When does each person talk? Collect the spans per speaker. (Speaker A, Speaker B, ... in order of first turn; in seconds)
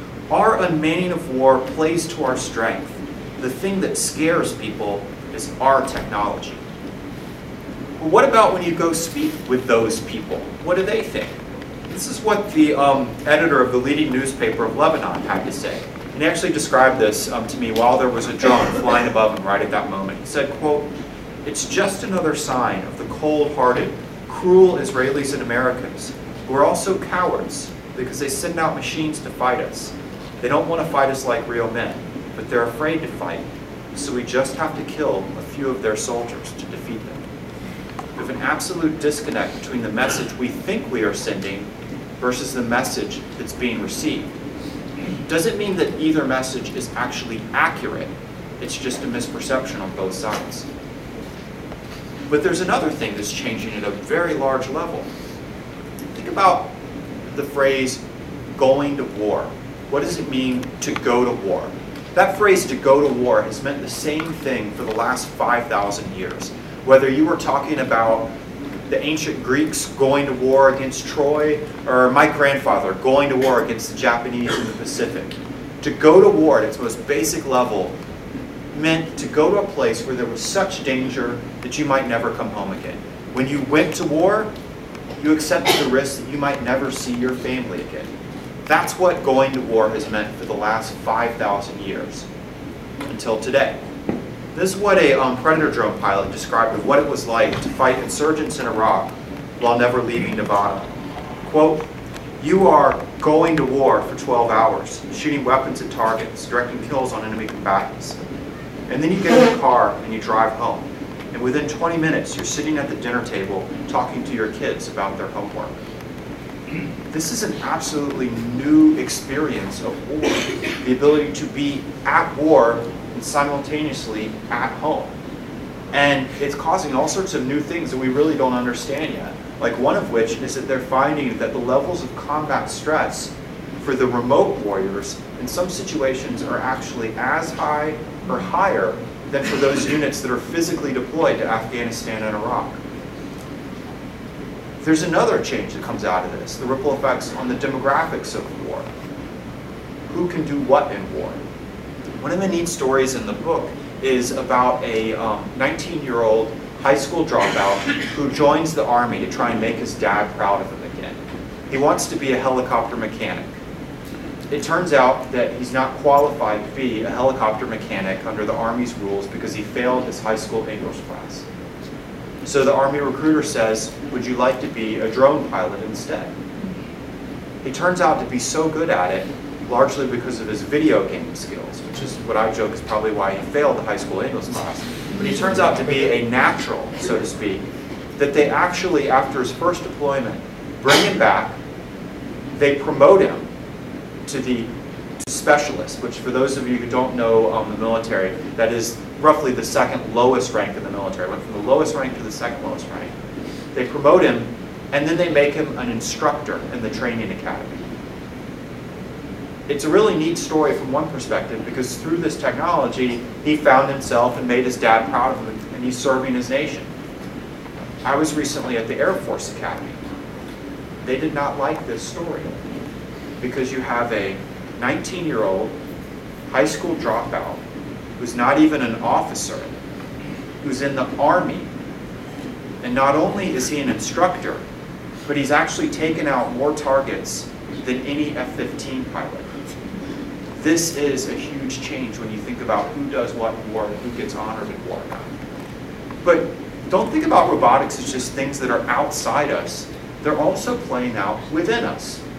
Speaker A: 0.3-6.6, 8.0-20.9, 21.4-37.2, 38.2-44.3, 45.2-50.7, 52.3-55.1, 56.1-56.7, 57.3-58.0, 58.5-68.3, 68.9-78.0, 78.7-84.5, 85.2-88.1, 88.7-92.3, 93.1-93.8, 94.5-100.9, 101.4-101.9, 102.4-108.2, 108.9-115.8, 117.1-125.1, 125.9-142.8, 144.8-148.9, 150.1-151.4, 152.2-163.5, 164.5-171.4, 172.4-176.3, 177.6-187.7, 188.2-191.6, 192.5-193.4, 194.3-203.1, 203.7-207.8, 209.7-216.9, 218.0-220.0, 221.0-222.6, 223.4-225.7, 226.5-227.6, 228.2-229.7, 230.6-231.7, 232.8-234.6, 235.2-239.5, 240.6-245.3, 246.2-252.2